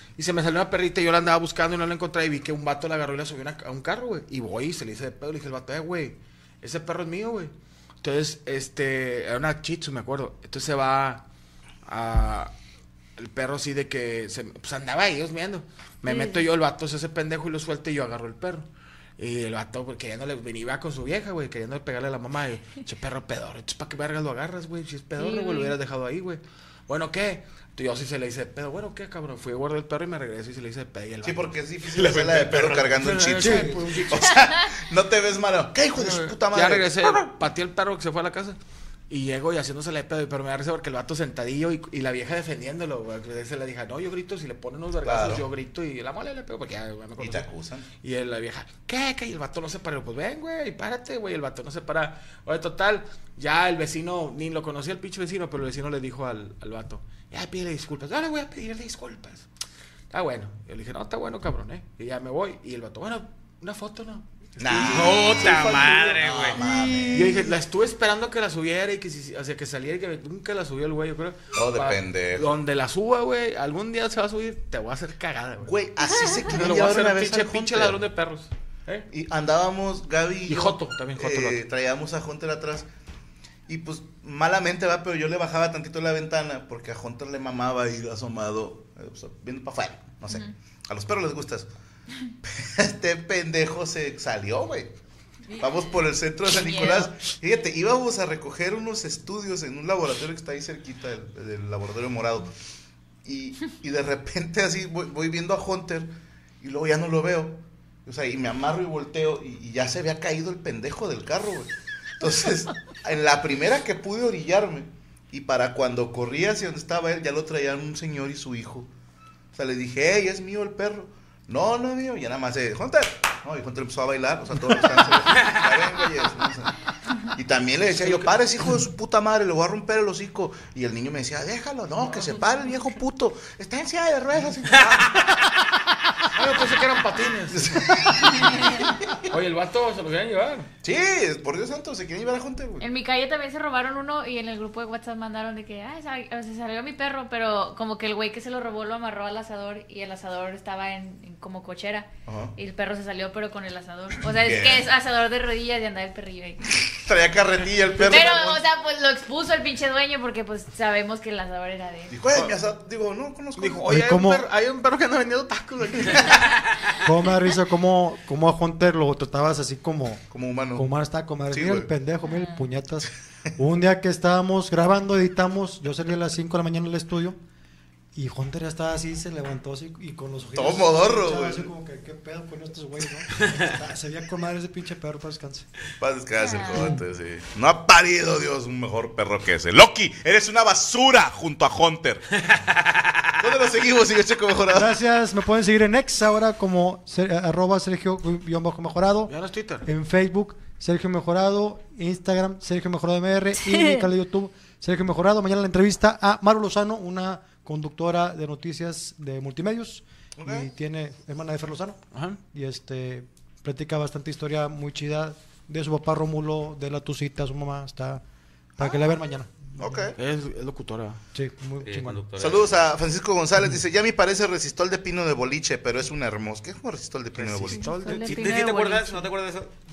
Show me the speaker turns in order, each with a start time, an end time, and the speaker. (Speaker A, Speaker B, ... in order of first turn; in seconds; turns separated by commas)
Speaker A: 0.2-11.2, Speaker A: 11.8-12.5, Speaker A: 13.2-18.6, Speaker B: 16.0-16.5, Speaker A: 19.2-31.5, Speaker B: 25.1-25.8, Speaker C: 31.2-37.1, Speaker D: 31.9-33.1, Speaker A: 32.9-34.2, Speaker E: 33.3-34.0, Speaker A: 36.0-38.6, Speaker A: 39.1-47.5, Speaker C: 45.0-45.5, Speaker C: 47.2-47.9, Speaker A: 48.0-59.5, Speaker A: 60.1-75.7, Speaker C: 64.6-67.5, Speaker D: 64.9-66.6, Speaker C: 71.5-72.5, Speaker C: 75.6-78.0, Speaker A: 76.4-79.1, Speaker C: 79.1-82.9, Speaker A: 80.5-81.6, Speaker C: 83.7-91.7, Speaker C: 92.4-94.9, Speaker B: 95.5-95.8, Speaker C: 95.6-102.5, Speaker B: 96.5-97.1, Speaker C: 103.2-106.1, Speaker C: 106.6-118.9, Speaker C: 119.5-126.7, Speaker D: 125.3-125.6, Speaker C: 127.3-135.5, Speaker A: 128.0-128.3, Speaker A: 136.3-137.8, Speaker C: 137.5-138.5, Speaker A: 139.3-140.7, Speaker C: 140.8-142.9, Speaker B: 142.8-156.7, Speaker C: 152.2-152.6, Speaker C: 154.3-154.9, Speaker C: 156.8-158.6, Speaker B: 158.0-162.2, Speaker C: 162.1-163.9, Speaker A: 163.6-166.4, Speaker E: 163.9-164.4, Speaker E: 167.0-177.4, Speaker C: 170.3-170.9, Speaker C: 171.5-171.9, Speaker B: 172.2-172.7, Speaker E: 178.1-185.7, Speaker C: 180.5-181.7, Speaker C: 186.0-192.3, Speaker B: 186.4-187.0, Speaker D: 192.4-193.3, Speaker C: 193.4-194.9, Speaker E: 194.7-218.2, Speaker A: 199.3-199.9, Speaker C: 210.4-210.7, Speaker A: 212.1-212.4, Speaker E: 218.8-220.1, Speaker C: 219.8-220.2, Speaker A: 220.2-221.2, Speaker E: 221.3-222.2, Speaker D: 221.8-222.6, Speaker C: 222.4-227.9, Speaker A: 227.3-228.4, Speaker B: 227.7-229.3, Speaker D: 228.1-229.7